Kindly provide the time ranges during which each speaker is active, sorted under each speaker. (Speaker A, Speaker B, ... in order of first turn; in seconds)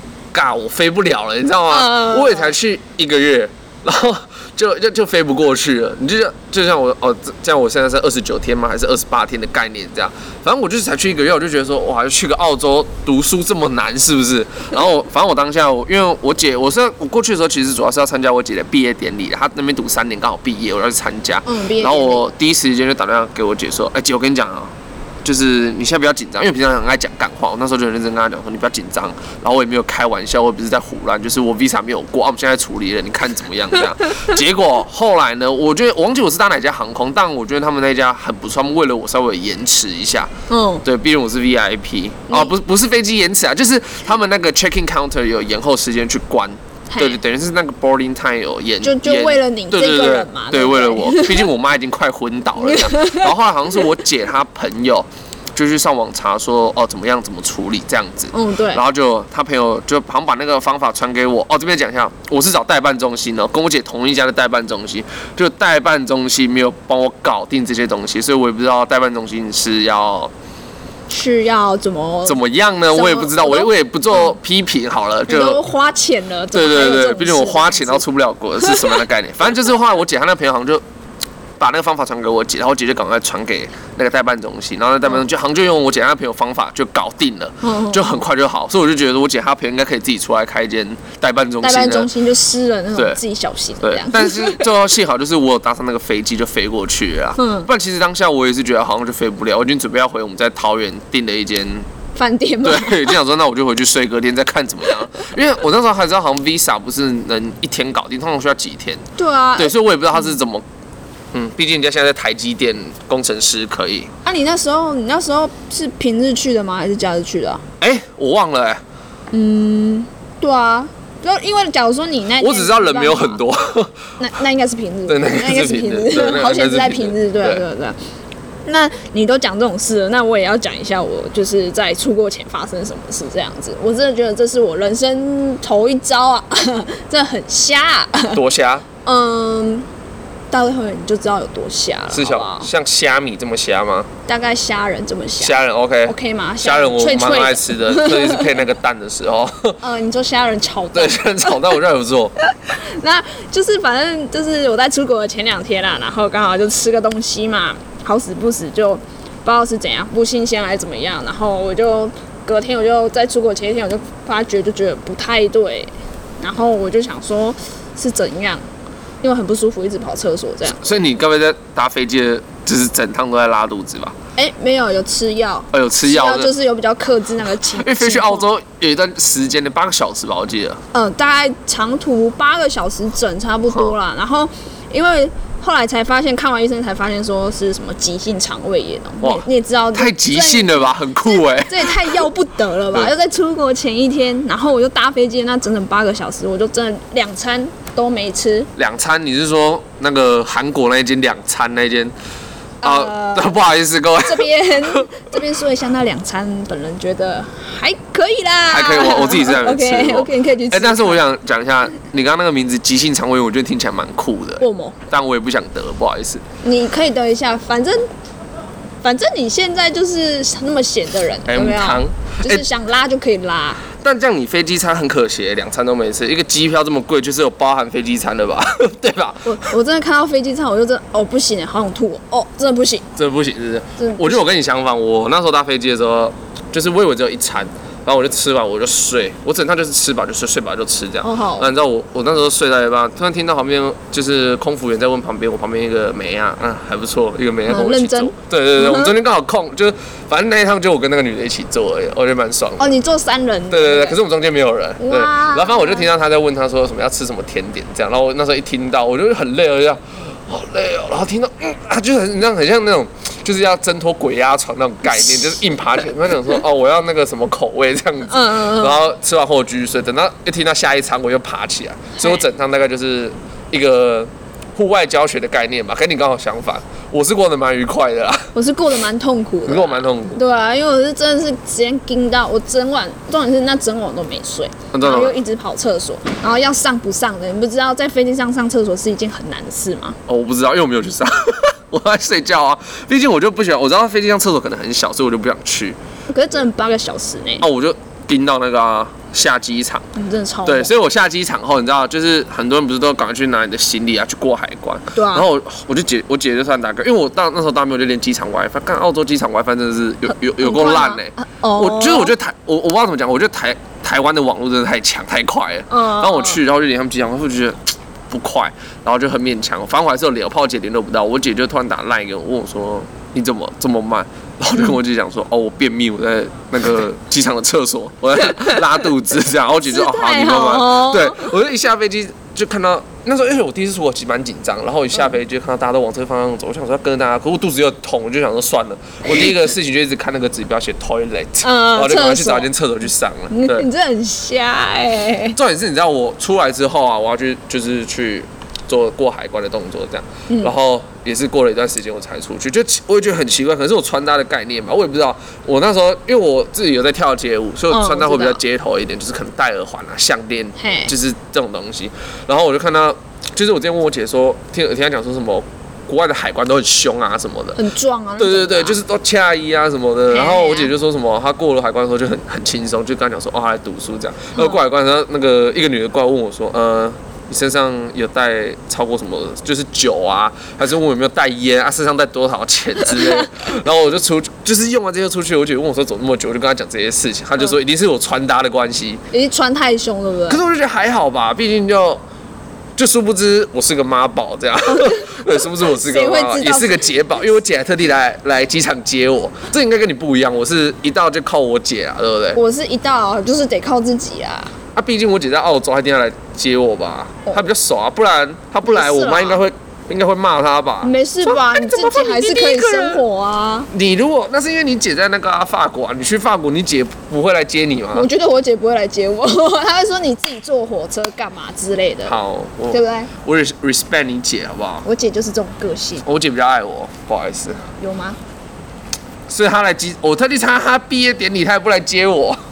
Speaker A: 0.3-40.3, 40.8-70.3, 72.2-75.6, 76.5-80.8, 81.6-92.1, 92.9-93.2, 93.8-101.9, 102.6-109.0, 109.6-110.6, 111.3-114.1, 117.8-118.8, 122.4-124.0, 125.1-127.6, 138.3-138.8, 142.1-144.1, 145.4-149.8, 150.9-152.3, 170.8-174.1, 175.7-176.5, 177.6-180.8, 189.2-192.3, 198.8-202.1, 202.8-205.2, 208.7-216.4, 221.5-222.6, 224.0-229.7, 233.2-252.9, 253.7-278.5, 279.7-280.4, 284.9-285.4, 290.3-296.0, 297.6-300.1, 300.6-343.9, 345.6-367.8, 368.4-389.2, 390.5-392.2, 393.0-402.6, 404.9-413.2, 413.9-418.3, 422.2-425.1, 426.2-427.8, 429.5-432.6
Speaker B: 1.7-2.5, 21.5-22.2, 40.5-40.9, 46.9-47.2, 48.8-51.5, 52.6-53.3, 58.3-58.8, 71.1-72.4, 72.9-74.4, 75.3-78.0, 78.6-79.0, 87.6-88.2, 91.6-94.7, 97.4-97.7, 102.2-103.2, 109.2-109.8, 114.2-117.6, 119.3-123.4, 124.2-128.0, 128.7-138.4, 139.0-139.9, 140.5-142.7, 144.3-148.5, 149.8-151.7, 152.6-168.6, 169.2-171.0, 174.4-178.5, 180.9-198.7, 202.8-203.7, 204.2-211.2, 214.6-215.0, 216.6-218.0, 219.0-223.8, 229.4-233.1, 234.0-234.4, 241.2-241.7, 247.7-249.1, 252.8-254.2, 255.0-256.1, 265.1-265.4, 268.3-269.0, 278.5-290.2, 296.3-297.7, 300.1-300.9, 305.1-305.5, 310.6-312.3, 315.9-316.6, 328.5-328.8, 329.8-331.5, 341.6-342.7, 343.5-345.6, 357.9-358.6, 360.8-361.1, 367.8-369.0, 370.3-370.9, 383.1-383.4, 389.3-390.6, 394.9-397.1, 402.6-404.7, 408.9-409.6, 411.0-413.9, 418.1-422.4, 422.9-423.3, 425.1-426.3, 428.0-428.4